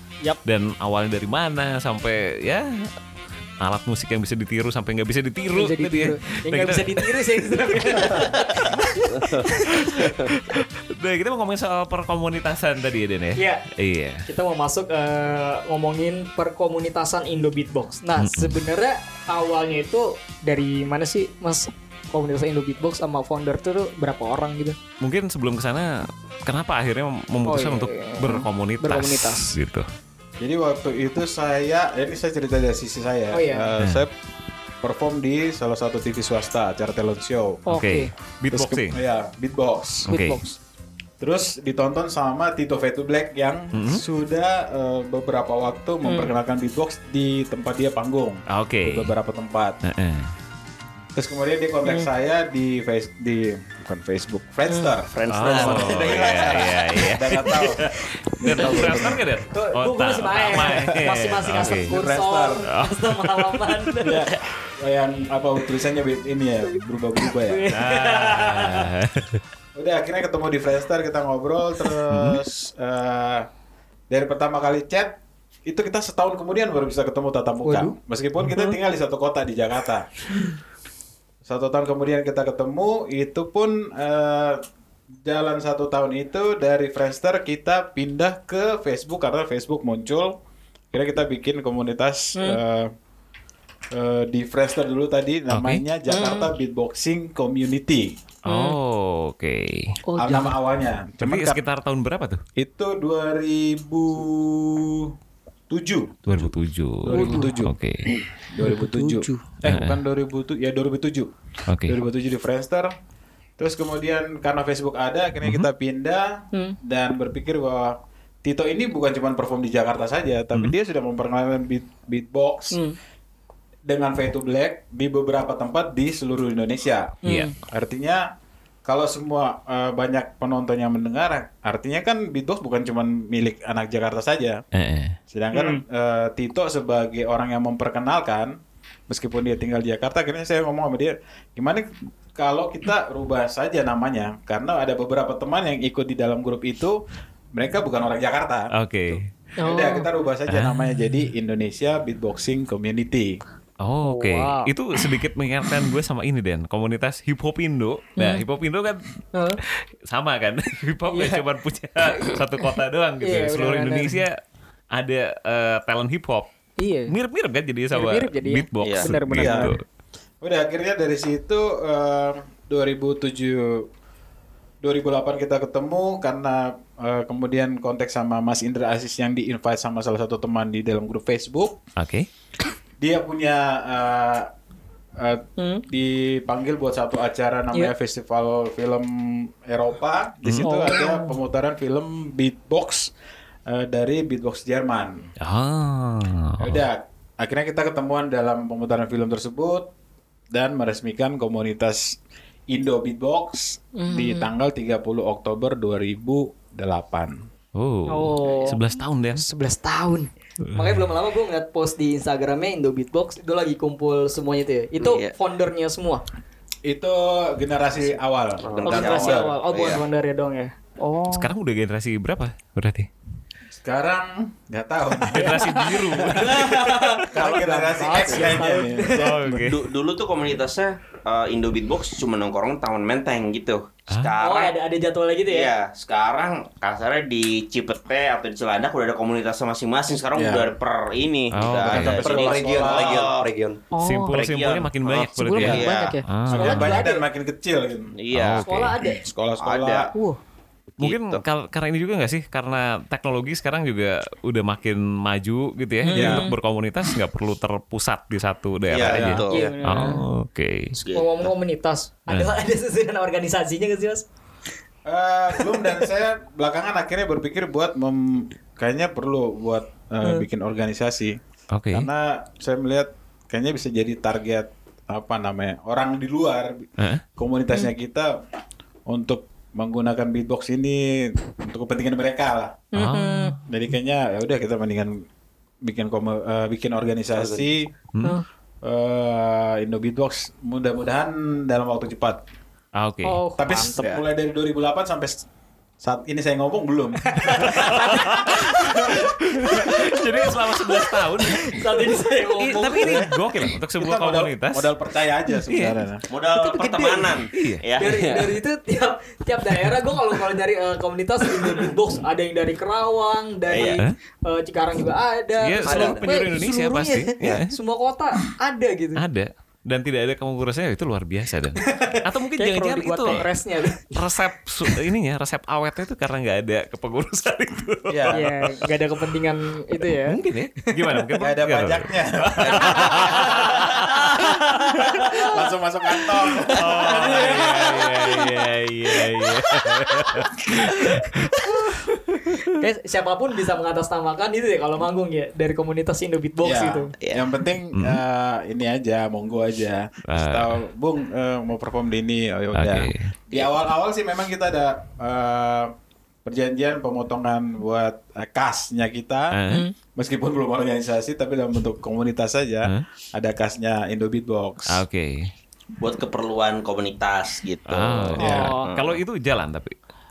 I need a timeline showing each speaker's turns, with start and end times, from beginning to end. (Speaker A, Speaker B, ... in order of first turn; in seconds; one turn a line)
Speaker A: 0.5-2.9
Speaker A: 3.6-14.2
Speaker B: 5.5-10.1
Speaker C: 9.1-9.5
Speaker C: 10.0-10.3
Speaker B: 13.4-13.7
Speaker B: 14.3-24.8
Speaker A: 18.2-18.6
Speaker A: 25.0-29.9
Speaker B: 27.4-29.5
Speaker D: 30.4-34.1
Speaker B: 33.3-33.7
Speaker A: 33.8-34.1
Speaker D: 34.8-37.8
Speaker B: 37.7-38.1
Speaker A: 37.7-39.0
Speaker D: 38.5-40.1
Speaker A: 40.1-40.4
Speaker B: 40.1-40.6
Speaker D: 41.2-49.8
Speaker A: 43.7-44.0
Speaker B: 46.0-46.3
Speaker A: 48.5-49.1
Speaker A: 49.8-50.3
Speaker D: 51.1-56.4
Speaker B: 54.7-57.9
Speaker C: 55.2-56.6
Speaker A: 55.3-57.6
Speaker D: 57.1-57.9
Speaker A: 58.4-61.9
Speaker B: 58.4-64.3
Speaker D: 58.5-59.2
Speaker D: 60.6-60.9
Speaker D: 61.9-62.7
Speaker A: 62.8-63.6
Speaker D: 64.0-67.7
Speaker B: 67.2-68.9
Speaker A: 67.7-69.4
Speaker D: 69.8-73.5
Speaker A: 72.1-72.4
Speaker D: 74.1-80.1
Speaker B: 77.6-78.8
Speaker D: 81.4-84.6
Speaker D: 85.2-90.4
Speaker D: 90.9-92.9
Speaker B: 92.3-92.6
Speaker D: 93.9-98.2
Speaker A: 95.5-95.8
Speaker B: 96.1-96.5
Speaker A: 98.5-100.0
Speaker B: 98.5-98.8
Speaker B: 100.1-100.5
Speaker D: 100.2-101.6
Speaker A: 101.2-102.4
Speaker D: 102.6-105.1
Speaker D: 105.7-106.5
Speaker A: 106.3-108.2
Speaker D: 107.0-107.8
Speaker B: 107.1-107.5
Speaker B: 108.1-109.4
Speaker D: 108.4-111.3
Speaker A: 109.7-110.0
Speaker A: 111.7-112.0
Speaker D: 111.9-112.9
Speaker D: 113.6-122.8
Speaker B: 122.7-123.0
Speaker D: 123.9-128.3
Speaker B: 127.2-127.5
Speaker A: 127.2-127.5
Speaker D: 128.8-134.6
Speaker A: 134.7-135.2
Speaker D: 135.3-138.6
Speaker B: 135.5-135.8
Speaker D: 139.1-147.0
Speaker D: 147.5-148.7
Speaker A: 148.8-149.2
Speaker B: 149.6-150.1
Speaker D: 149.6-153.4
Speaker A: 150.5-151.3
Speaker A: 153.8-159.0
Speaker B: 154.0-154.7
Speaker B: 158.2-158.4
Speaker B: 159.3-159.6
Speaker A: 159.6-164.4
Speaker B: 161.1-161.4
Speaker B: 162.1-164.2
Speaker A: 165.0-166.5
Speaker B: 166.8-167.1
Speaker A: 167.1-169.8
Speaker B: 167.9-169.8
Speaker E: 168.8-169.1
Speaker D: 169.3-169.7
Speaker D: 170.4-173.9
Speaker D: 174.8-181.8
Speaker A: 182.0-182.3
Speaker D: 183.0-184.5
Speaker D: 185.2-193.1
Speaker B: 185.6-185.8
Speaker A: 190.4-190.7
Speaker B: 190.6-191.4
Speaker D: 193.7-195.2
Speaker A: 195.4-196.8
Speaker D: 196.6-199.9
Speaker D: 200.5-202.2
Speaker D: 202.7-207.4
Speaker B: 203.9-204.5
Speaker A: 207.8-209.4
Speaker B: 208.1-208.8
Speaker B: 209.4-216.2
Speaker A: 210.7-211.1
Speaker E: 215.0-215.3
Speaker D: 216.9-219.5
Speaker E: 218.6-220.0
Speaker C: 218.7-219.3
Speaker B: 218.8-221.5
Speaker A: 221.3-223.1
Speaker D: 223.8-226.7
Speaker A: 225.2-227.3
Speaker B: 225.3-229.3
Speaker D: 227.3-229.7
Speaker A: 229.0-229.9
Speaker E: 229.6-234.7
Speaker B: 234.4-235.7
Speaker E: 235.5-243.5
Speaker D: 240.3-240.7
Speaker A: 241.5-242.2
Speaker D: 241.8-243.3
Speaker C: 242.0-243.8
Speaker B: 243.9-244.4
Speaker A: 244.0-247.0
Speaker E: 244.3-246.2
Speaker B: 245.3-247.2
Speaker D: 246.5-248.1
Speaker E: 248.2-248.7
Speaker A: 248.3-249.0
Speaker B: 248.6-249.2
Speaker D: 249.2-250.1
Speaker E: 249.6-250.1
Speaker B: 250.1-250.4
Speaker E: 251.0-251.4
Speaker A: 251.0-260.9
Speaker B: 256.1-256.6
Speaker D: 256.1-256.5
Speaker E: 258.9-259.8
Speaker D: 259.0-259.5
Speaker B: 259.5-260.2
Speaker E: 261.0-261.5
Speaker B: 261.1-264.3
Speaker D: 265.1-271.4
Speaker B: 265.6-266.0
Speaker A: 271.7-272.1
Speaker D: 271.9-278.4
Speaker D: 279.1-282.9
Speaker B: 282.9-283.5
Speaker A: 282.9-283.6
Speaker D: 283.7-285.2
Speaker D: 285.8-287.9
Speaker C: 287.4-287.7
Speaker D: 288.8-292.4
Speaker A: 293.0-293.4
Speaker B: 293.2-294.2
Speaker D: 293.6-295.4
Speaker D: 296.0-298.0
Speaker B: 297.2-303.4
Speaker A: 297.7-304.9
Speaker D: 298.9-299.1
Speaker D: 303.0-303.3
Speaker D: 304.0-306.3
Speaker A: 305.7-306.0
Speaker E: 306.3-308.4
Speaker B: 306.5-319.2
Speaker A: 307.6-307.8
Speaker E: 313.7-314.0
Speaker A: 315.6-317.7
Speaker C: 315.8-316.4
Speaker A: 319.2-323.5
Speaker B: 321.8-324.2
Speaker A: 324.1-328.5
Speaker D: 328.1-328.4
Speaker B: 328.3-331.3
Speaker A: 330.2-335.3
Speaker D: 331.4-333.4
Speaker B: 332.7-335.6
Speaker D: 335.5-337.5
Speaker B: 336.6-338.6
Speaker A: 336.7-342.5
Speaker B: 339.1-339.5
Speaker B: 340.0-347.1
Speaker D: 346.6-355.9
Speaker E: 347.2-347.5
Speaker A: 347.9-348.2
Speaker A: 350.3-350.8
Speaker A: 352.8-353.3
Speaker D: 356.4-359.6
Speaker A: 359.5-359.9
Speaker B: 359.7-359.9
Speaker D: 360.1-365.0
Speaker A: 364.9-365.5
Speaker E: 366.0-369.2
Speaker A: 367.9-369.9
Speaker B: 368.4-368.9
Speaker D: 368.4-368.7